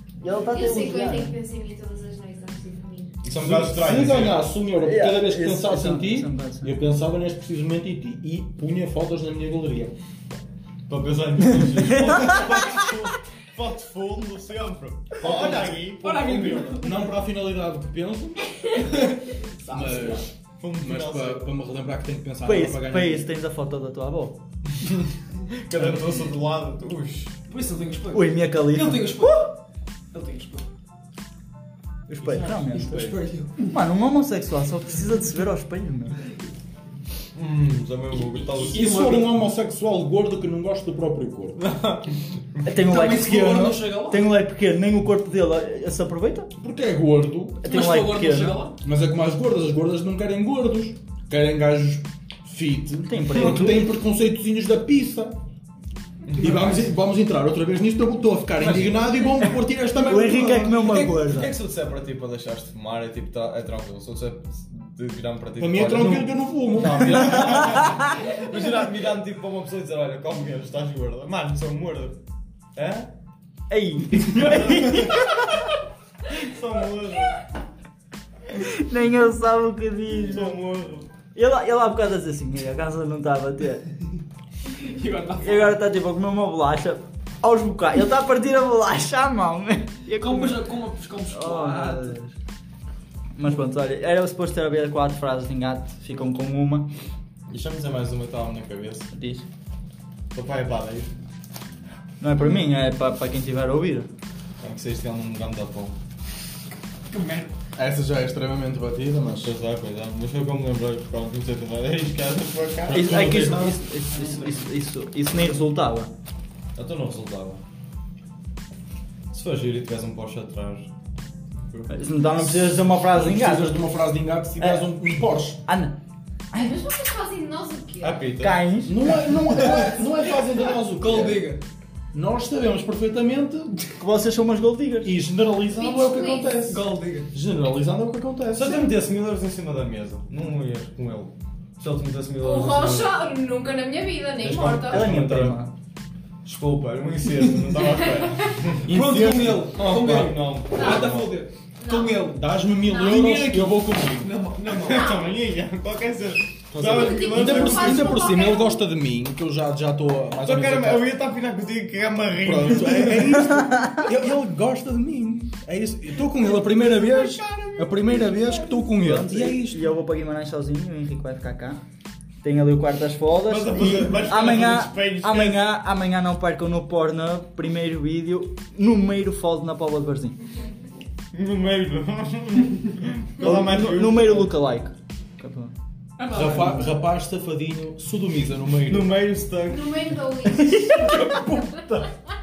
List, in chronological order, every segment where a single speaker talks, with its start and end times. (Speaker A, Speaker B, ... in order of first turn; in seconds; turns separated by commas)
Speaker A: 0.2-1.3, Speaker B: 0.4-3.1, Speaker C: 3.2-4.4, Speaker D: 3.3-9.9, Speaker A: 4.8-6.8, Speaker C: 10.9-16.6, Speaker A: 11.9-12.8, Speaker D: 15.2-19.1, Speaker E: 16.0-16.9, Speaker A: 19.6-20.2, Speaker D: 19.7-23.3, Speaker C: 20.6-21.5, Speaker A: 22.4-24.4, Speaker C: 24.8-27.4, Speaker E: 27.5-29.5, Speaker A: 28.1-29.5, Speaker E: 30.1-30.7, Speaker A: 32.1-36.2, Speaker E: 32.2-33.8, Speaker C: 37.4-39.0, Speaker E: 38.5-39.2, Speaker D: 38.6-41.6, Speaker C: 41.6-42.1, Speaker A: 42.6-46.5, Speaker E: 42.9-44.2, Speaker D: 46.6-47.7, Speaker A: 47.6-48.7, Speaker E: 47.6-48.8, Speaker D: 48.8-55.4, Speaker A: 53.0-53.9, Speaker C: 56.3-56.9, Speaker D: 56.4-61.0, Speaker C: 58.6-59.5, Speaker A: 60.0-61.5, Speaker C: 60.7-72.2, Speaker D: 65.6-67.5, Speaker C: 72.8-73.1, Speaker A: 73.7-75.6, Speaker C: 74.3-75.5, Speaker C: 76.3-77.4, Speaker A: 78.5-80.5, Speaker C: 80.2-81.1, Speaker A: 81.3-83.9, Speaker E: 84.9-85.8, Speaker A: 85.4-90.6, Speaker E: 90.2-92.2, Speaker A: 91.3-92.3, Speaker A: 93.4-96.9, Speaker C: 97.5-99.1, Speaker A: 99.1-99.5, Speaker C: 100.3-101.1, Speaker A: 102.2-104.1, Speaker C: 104.6-106.0, Speaker E: 107.1-107.5, Speaker D: 107.8-109.5, Speaker C: 109.4-113.3, Speaker D: 112.9-113.8, Speaker A: 112.9-116.1, Speaker C: 116.8-117.6, Speaker C: 119.3-120.9, Speaker A: 121.9-123.8, Speaker D: 122.4-125.6, Speaker A: 124.6-124.9, Speaker A: 125.6-126.0, Speaker A: 126.5-126.9, Speaker B: 126.5-128.2, Speaker C: 128.0-128.6, Speaker A: 128.4-129.3, Speaker D: 128.9-131.4, Speaker E: 131.0-131.6, Speaker D: 132.1-133.9, Speaker A: 134.0-135.2, Speaker D: 135.0-136.8, Speaker B: 135.8-136.7, Speaker E: 136.7-137.2, Speaker D: 137.3-138.9, Speaker C: 138.5-143.3, Speaker B: 142.4-145.1, Speaker C: 144.3-145.6, Speaker A: 144.8-145.7, Speaker C: 146.4-149.0, Speaker D: 148.9-149.8, Speaker E: 149.0-152.4, Speaker C: 149.6-151.4, Speaker B: 150.8-151.1, Speaker B: 151.8-153.3, Speaker D: 152.3-154.3, Speaker E: 153.1-154.9, Speaker C: 154.7-158.4, Speaker B: 154.9-155.3, Speaker D: 156.7-161.1, Speaker B: 156.8-158.8, Speaker C: 160.4-163.3, Speaker D: 162.4-169.8, Speaker C: 166.6-168.7, Speaker A: 168.8-171.8, Speaker A: 172.4-180.4, Speaker C: 173.5-175.7, Speaker C: 181.3-184.5, Speaker A: 183.4-185.7, Speaker E: 186.2-186.8, Speaker D: 186.3-189.2, Speaker C: 188.9-190.2, Speaker B: 189.7-191.8, Speaker A: 190.4-191.4, Speaker C: 191.3-192.1